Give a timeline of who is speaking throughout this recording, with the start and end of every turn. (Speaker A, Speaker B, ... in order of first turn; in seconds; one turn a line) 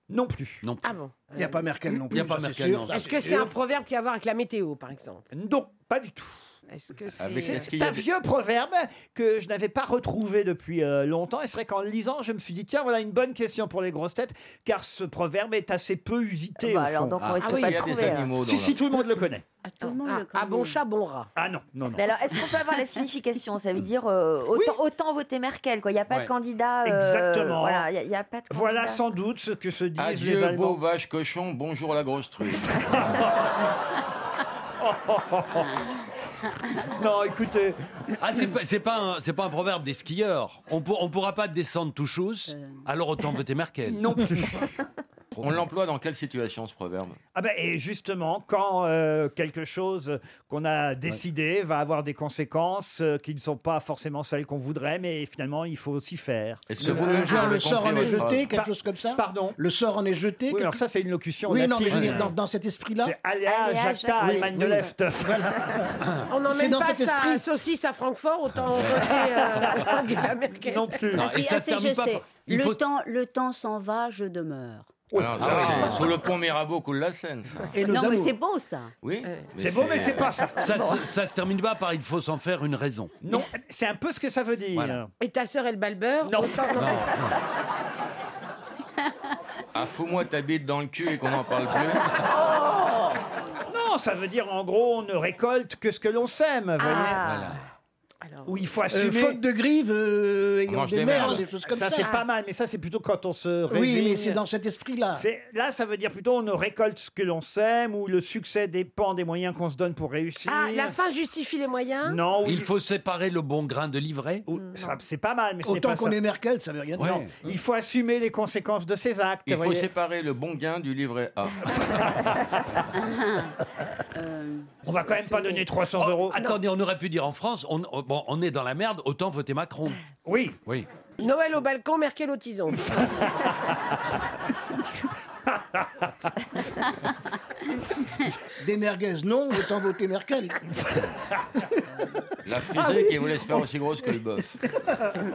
Speaker A: 0.1-0.6
Speaker B: 0.6-0.9
Speaker C: 0.8-1.7
Speaker D: 1.4-3.4
Speaker B: 2.1-3.4
Speaker C: 2.9-5.3
Speaker A: 5.3-6.4
Speaker C: 6.7-7.7
Speaker E: 7.2-8.0
Speaker A: 7.3-17.6
Speaker F: 16.6-18.3
Speaker C: 17.4-17.8
Speaker E: 17.5-18.8
Speaker A: 18.4-19.4
Speaker G: 19.7-20.8
Speaker C: 19.8-21.3
Speaker A: 21.4-22.1
Speaker F: 22.0-29.0
Speaker A: 24.5-24.8
Speaker A: 26.8-27.9
Speaker A: 28.5-30.8
Speaker E: 30.0-32.7
Speaker A: 32.6-33.5
Speaker A: 34.8-35.7
Speaker A: 37.0-37.8
Speaker B: 38.2-44.1
Speaker G: 42.5-42.8
Speaker A: 43.9-44.6
Speaker B: 45.3-45.7
Speaker E: 45.4-47.2
Speaker A: 47.4-59.6
Speaker E: 56.7-58.5
Speaker B: 56.9-57.4
Speaker D: 56.9-60.8
Speaker A: 60.5-62.4
Speaker D: 61.5-63.1
Speaker B: 61.9-62.3
Speaker A: 63.0-65.8
Speaker D: 64.2-65.4
Speaker C: 66.3-71.0
Speaker D: 66.5-67.4
Speaker A: 69.0-69.9
Speaker A: 70.6-71.3
Speaker B: 71.1-72.8
Speaker G: 71.2-75.0
Speaker E: 75.1-77.5
Speaker B: 75.3-76.1
Speaker D: 77.7-78.3
Speaker G: 77.9-78.9
Speaker E: 79.0-80.3
Speaker C: 79.2-79.5
Speaker A: 79.6-80.7
Speaker B: 80.6-83.2
Speaker A: 83.2-85.1
Speaker C: 85.2-87.0
Speaker A: 86.2-87.0
Speaker B: 86.8-87.4
Speaker E: 89.7-92.0
Speaker C: 92.6-92.9
Speaker A: 93.7-97.2
Speaker C: 96.8-97.2
Speaker B: 97.2-97.6
Speaker C: 98.2-98.5
Speaker A: 98.5-99.4
Speaker D: 98.9-102.1
Speaker E: 100.7-101.4
Speaker A: 101.2-104.4
Speaker D: 103.7-105.2
Speaker A: 105.1-111.0
Speaker C: 110.5-112.2
Speaker A: 112.0-112.7
Speaker B: 112.4-114.5
Speaker A: 114.5-116.2
Speaker D: 115.6-117.2
Speaker B: 117.0-117.4
Speaker A: 117.4-119.9
Speaker E: 119.5-121.6
Speaker A: 121.7-122.6
Speaker G: 123.0-123.5
Speaker G: 124.2-124.7
Speaker A: 124.8-126.4
Speaker B: 126.3-130.0
Speaker A: 130.3-130.6
Speaker C: 131.2-133.0
Speaker A: 133.2-133.5
Speaker A: 135.8-136.1
Speaker D: 138.6-140.5
Speaker E: 142.4-144.5
Speaker A: 142.8-143.1